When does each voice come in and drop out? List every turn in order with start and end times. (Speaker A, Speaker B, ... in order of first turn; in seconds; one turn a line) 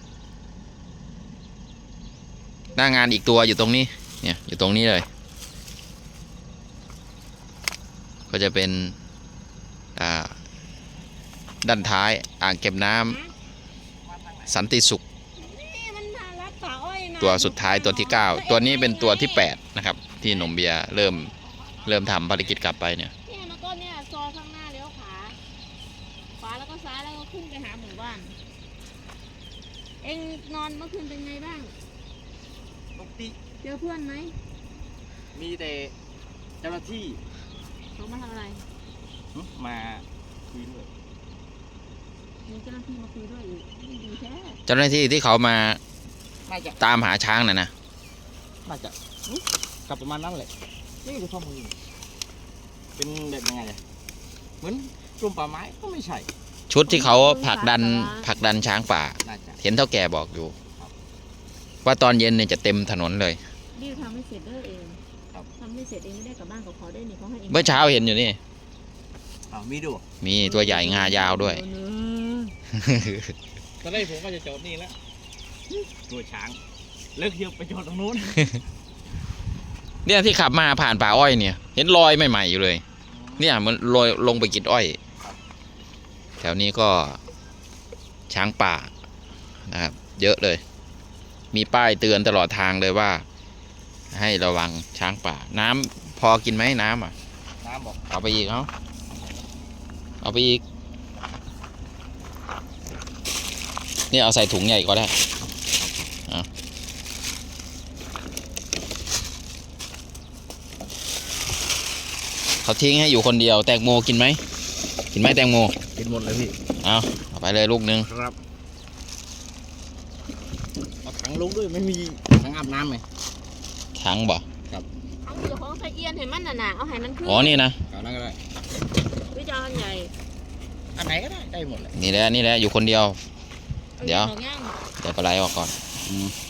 Speaker A: 2.7-5.1
Speaker A: 8.3-8.9
Speaker A: 9.9-10.3
Speaker A: 11.6-13.2
Speaker B: 13.1-13.3
Speaker C: 14.1-14.4
Speaker A: 14.5-15.0
Speaker B: 15.4-19.5
Speaker A: 17.2-21.3
Speaker A: 21.8-23.1
Speaker B: 23.2-25.4
Speaker B: 26.4-28.4
Speaker B: 30.0-31.8
Speaker C: 33.0-33.4
Speaker B: 33.6-34.4
Speaker C: 35.3-35.9
Speaker C: 36.6-37.2
Speaker B: 37.9-38.6
Speaker C: 39.3-40.9
Speaker B: 42.5-44.6
Speaker A: 44.7-45.8
Speaker C: 46.5-46.8
Speaker A: 46.8-47.7
Speaker C: 48.6-50.5
Speaker C: 51.0-51.7
Speaker C: 53.0-53.8
Speaker C: 54.6-56.3
Speaker A: 56.7-60.5
Speaker B: 56.9-58.3
Speaker C: 59.2-59.6
Speaker A: 61.8-63.4
Speaker B: 63.7-65.0
Speaker B: 65.6-68.0
Speaker A: 67.5-68.4
Speaker C: 69.5-70.0
Speaker A: 70.2-71.6
Speaker B: 70.4-72.5
Speaker A: 72.7-73.3
Speaker C: 73.8-75.0
Speaker C: 75.7-76.6
Speaker C: 77.1-78.4
Speaker A: 80.0-82.8
Speaker C: 83.1-83.5
Speaker A: 83.4-85.0
Speaker A: 86.4-87.2
Speaker A: 88.3-88.9
Speaker A: 89.7-90.6
Speaker A: 91.5-93.2
Speaker A: 94.1-97.1
Speaker C: 97.6-98.0
Speaker A: 98.1-98.7
Speaker A: 100.2-100.6
Speaker A: 104.1-105.2
Speaker A: 112.6-114.4
Speaker A: 115.1-115.8
Speaker C: 116.0-116.5
Speaker A: 116.8-118.1
Speaker C: 118.1-118.3
Speaker C: 121.0-123.0
Speaker A: 124.0-124.4
Speaker B: 125.2-127.6
Speaker A: 127.2-127.8
Speaker C: 127.9-128.4
Speaker B: 129.3-130.1
Speaker C: 130.9-131.9
Speaker A: 131.9-133.2
Speaker B: 134.0-134.8
Speaker A: 134.0-134.3
Speaker A: 135.0-135.8